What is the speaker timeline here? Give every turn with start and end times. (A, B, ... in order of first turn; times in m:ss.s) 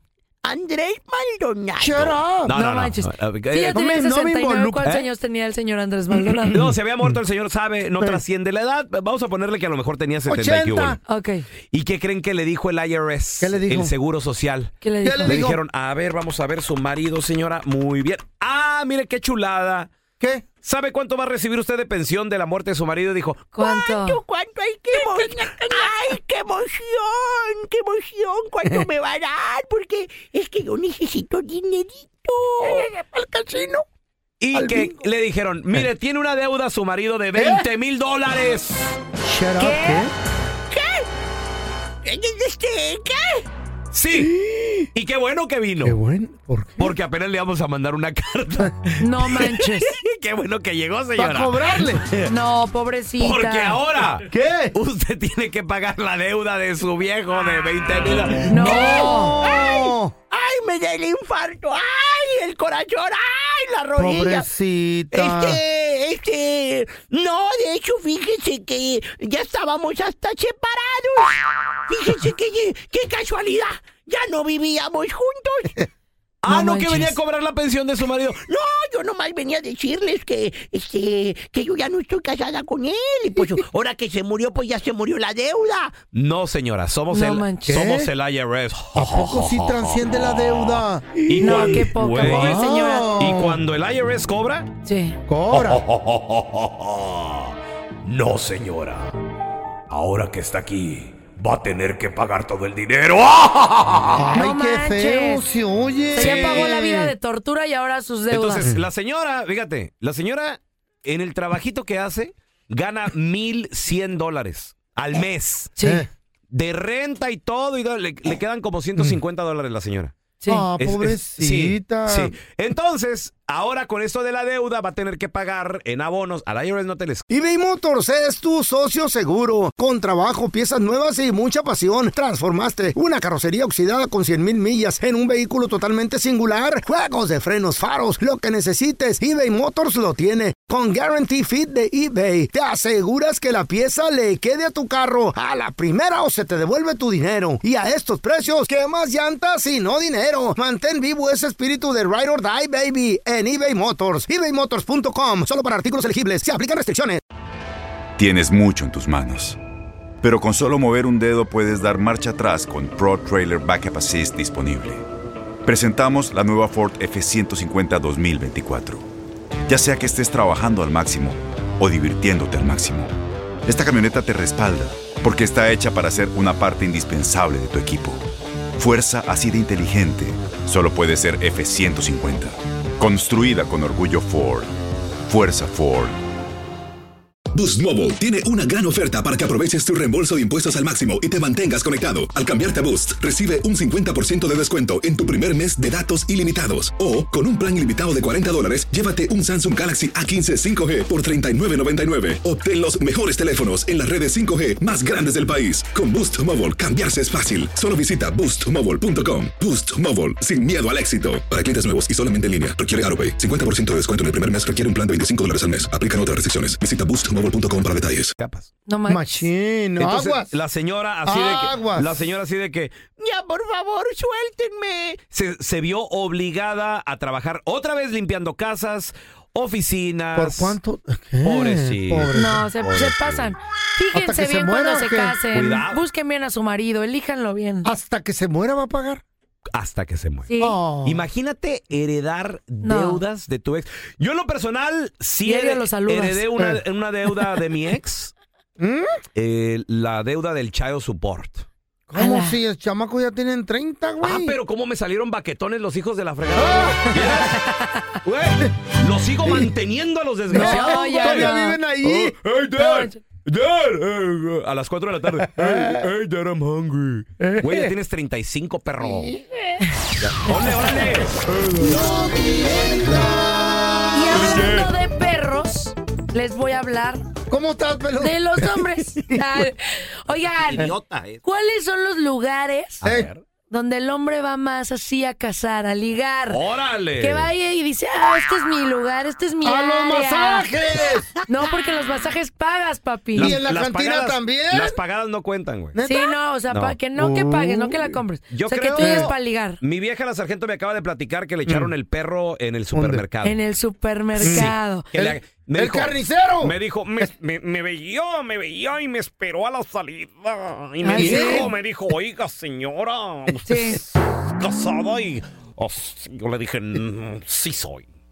0:00.4-0:02.1 A
0:01.8-0:02.5 B
0:02.4-0:03.8 C
0:02.5-0:06.6 D
0:03.7-0:04.9 B
0:06.1-0:07.2 B
0:06.5-0:11.0 C
0:10.3-0:11.0 B
0:11.0-0:11.4 D
0:11.7-0:19.9 C
0:13.4-0:13.9 B
0:14.8-0:15.4 D
0:15.0-0:15.6 B
0:20.2-0:20.4 B
0:20.6-0:23.6 C
0:23.5-0:24.2 D
0:23.6-0:32.8 A
0:24.9-0:26.1 B
0:32.6-0:33.8 B
0:34.4-0:39.0 C
0:34.5-0:35.0 B
0:37.3-0:37.7 B
0:39.2-0:40.1 B
0:39.6-0:40.1 D
0:40.7-0:41.0 A
0:42.0-0:43.4 A
0:43.9-0:44.3 C
0:44.1-0:44.9 B
0:44.9-0:46.0 C
0:45.8-0:46.9 B
0:46.8-0:52.3 C
0:49.0-0:49.9 D
0:51.2-0:52.0 B
0:52.3-0:53.8 D
0:53.2-0:58.9 C
0:54.3-0:54.7 B
0:58.5-0:59.4 D
0:58.5-1:00.1 B
0:59.4-1:04.4 A
1:04.0-1:05.6 B
1:05.1-1:15.7 A
1:16.4-1:18.4 C
1:16.5-1:17.2 D
1:18.4-1:26.0 A
1:26.1-1:34.7 C
1:27.1-1:27.8 D
1:27.7-1:28.1 B
1:28.9-1:33.6 B
1:31.4-1:33.1 D
1:34.8-1:35.2 D
1:35.3-1:35.8 B
1:35.5-1:39.1 C
1:39.9-1:44.3 C
1:44.1-1:47.1 B
1:44.3-1:45.4 D
1:46.1-1:48.7 D
1:46.1-1:46.7 C
1:48.3-1:55.7 C
1:48.6-1:48.9 B
1:55.8-1:56.0 D
1:55.8-1:56.1 B
1:56.5-2:00.1 C
2:00.4-2:00.7 D
2:00.5-2:02.3 B
2:00.8-2:07.2 C
2:07.3-2:37.2 B
2:38.2-2:39.6 E
2:40.2-2:45.0 E
2:45.6-2:49.1 E
2:49.7-2:53.1 E
2:53.6-2:58.2 E
2:58.8-3:04.7 E
3:05.2-3:06.1 E
3:07.5-3:38.3 F
3:38.4-3:38.7 C
3:38.9-3:39.4 D
3:39.1-3:40.6 B
3:40.0-3:43.0 C
3:41.2-3:42.2 B
3:43.2-3:45.2 A
3:45.3-3:50.8 C
3:50.3-3:52.6 B
3:51.4-3:53.5 C
3:52.3-3:57.9 D
3:54.1-3:55.4 B
3:55.5-3:56.0 C
3:57.8-3:59.2 B
3:59.7-4:00.5 C
4:00.5-4:00.8 D
4:00.6-4:01.3 B
4:01.0-4:08.3 C
4:02.8-4:03.2 D
4:05.4-4:06.4 D
4:06.6-4:06.8 B
4:08.8-4:09.1 B
4:09.3-4:11.7 C
4:12.1-4:14.6 B
4:12.2-4:12.5 D
4:14.2-4:17.6 C
4:16.5-4:17.4 B
4:17.2-4:18.0 D
4:18.2-4:29.3 C
4:19.4-4:19.7 B
4:20.5-4:22.4 B
4:20.5-4:21.8 D
4:22.8-4:23.2 D
4:25.4-4:26.1 B
4:27.4-4:27.9 B
4:29.0-4:29.6 B
4:30.2-4:32.3 C
4:31.6-4:32.1 B
4:32.8-4:33.4 B
4:34.1-4:37.2 D
4:34.3-4:34.9 C
4:37.5-4:39.4 B
4:38.2-4:40.9 D
4:40.6-4:41.4 C
4:41.4-4:43.0 D
4:43.0-4:43.4 C
4:43.0-4:43.3 B
4:43.7-4:46.6 D
4:46.5-4:47.5 C
4:47.2-4:50.7 D
4:49.6-4:51.3 B
4:51.5-4:53.6 D
4:53.3-4:56.0 C
4:53.4-4:55.0 B
4:55.9-4:56.3 B
4:56.0-4:59.8 D
4:56.7-4:57.0 C
4:57.2-4:58.2 B
4:58.5-5:03.6 C
4:59.0-4:59.3 B
5:01.6-5:01.9 B
5:02.9-5:03.2 B
5:03.4-5:05.0 D
5:04.4-5:18.1 C
5:04.4-5:07.3 B
5:11.0-5:11.7 D
5:11.1-5:11.7 B
5:13.6-5:14.0 D